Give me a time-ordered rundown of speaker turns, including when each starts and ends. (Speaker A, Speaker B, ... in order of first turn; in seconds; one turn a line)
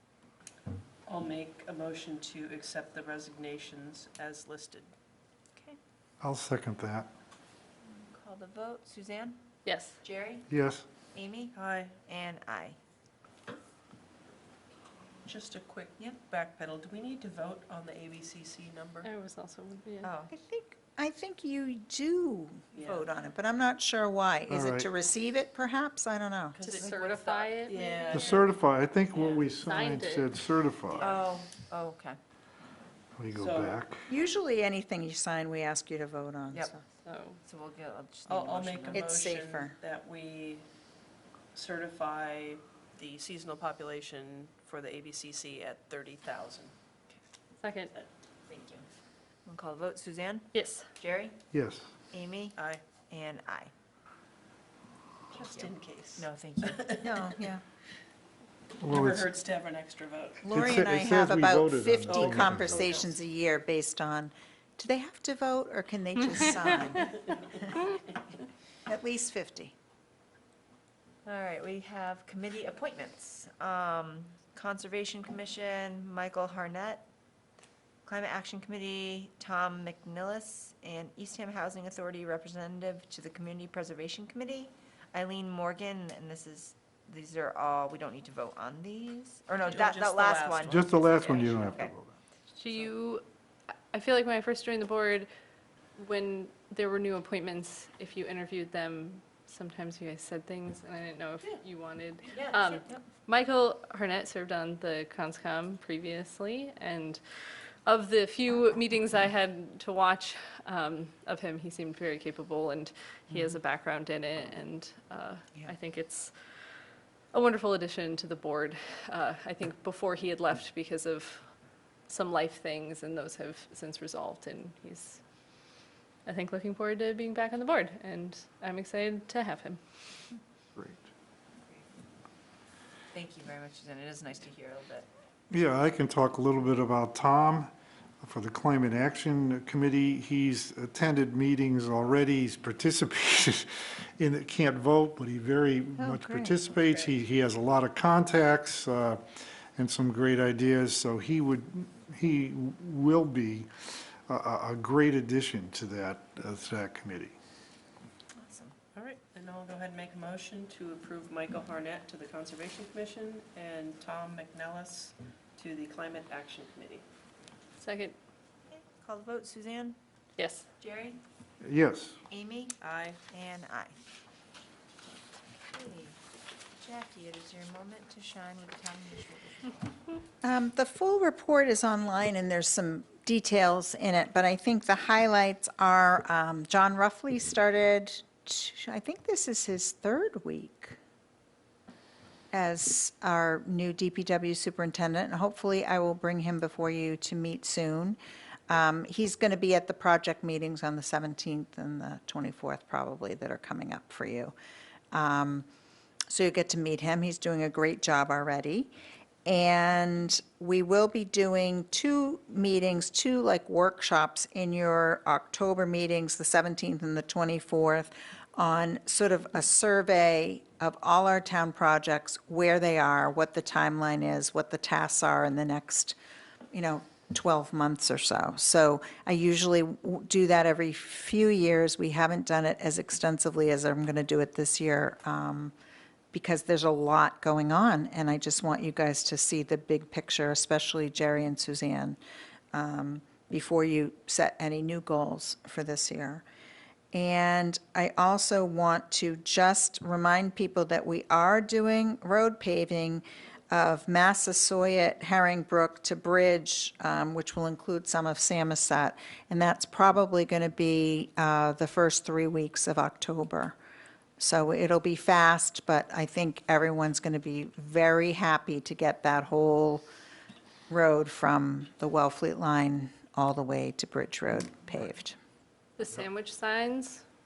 Speaker A: 1.1-4.9
Speaker B: 6.2-7.1
Speaker C: 7.9-9.4
Speaker D: 9.7-10.0
Speaker C: 10.0-10.5
Speaker B: 10.5-10.9
Speaker C: 11.1-12.8
Speaker A: 11.6-12.0
Speaker A: 15.2-19.1
Speaker D: 19.0-20.1
Speaker C: 20.0-20.3
Speaker E: 20.3-26.6
Speaker A: 22.7-23.0
Speaker B: 24.5-24.9
Speaker A: 26.5-28.2
Speaker D: 26.6-28.4
Speaker C: 27.7-28.4
Speaker B: 28.1-31.1
Speaker D: 29.4-30.3
Speaker A: 31.0-31.2
Speaker C: 31.0-32.2
Speaker B: 33.2-34.0
Speaker A: 33.4-33.8
Speaker E: 34.1-36.8
Speaker D: 37.0-37.4
Speaker C: 37.4-39.0
Speaker A: 38.3-40.7
Speaker E: 38.9-39.8
Speaker A: 41.5-46.7
Speaker D: 47.6-47.9
Speaker C: 48.5-48.9
Speaker C: 49.5-51.4
Speaker D: 50.5-50.9
Speaker B: 51.5-51.9
Speaker C: 52.1-52.6
Speaker A: 52.6-52.8
Speaker C: 53.1-53.7
Speaker A: 55.3-57.1
Speaker C: 55.3-57.3
Speaker E: 57.0-57.6
Speaker B: 58.8-59.3
Speaker A: 58.9-60.5
Speaker E: 60.4-67.7
Speaker B: 60.5-62.9
Speaker A: 62.1-63.1
Speaker E: 68.9-69.7
Speaker C: 71.2-77.1
Speaker C: 78.0-91.9
Speaker A: 89.6-90.6
Speaker B: 90.6-92.2
Speaker D: 92.6-93.2
Speaker D: 93.9-95.3
Speaker D: 96.0-107.2
Speaker C: 102.3-103.0
Speaker D: 107.8-116.3
Speaker E: 113.3-113.6
Speaker D: 117.3-121.5
Speaker D: 122.1-125.2
Speaker D: 126.3-129.8
Speaker B: 130.8-131.1
Speaker C: 133.1-135.1
Speaker B: 135.5-149.2
Speaker E: 146.0-146.6
Speaker B: 149.8-157.4
Speaker C: 158.3-158.8
Speaker A: 158.9-167.1
Speaker D: 167.8-168.2
Speaker C: 168.7-170.0
Speaker D: 170.4-170.7
Speaker C: 170.8-171.2
Speaker B: 171.6-172.2
Speaker C: 172.3-172.8
Speaker A: 172.8-173.2
Speaker C: 173.3-173.9
Speaker C: 175.7-176.2
Speaker C: 176.8-179.8
Speaker E: 180.4-191.0
Speaker E: 192.5-198.2
Speaker E: 198.7-204.5
Speaker E: 205.1-205.7
Speaker E: 206.3-208.9
Speaker E: 209.5-226.2
Speaker E: 226.7-235.7
Speaker E: 236.3-242.2
Speaker E: 242.7-246.4
Speaker E: 247.1-263.8
Speaker E: 264.4-270.1
Speaker E: 270.9-275.4
Speaker D: 276.0-277.2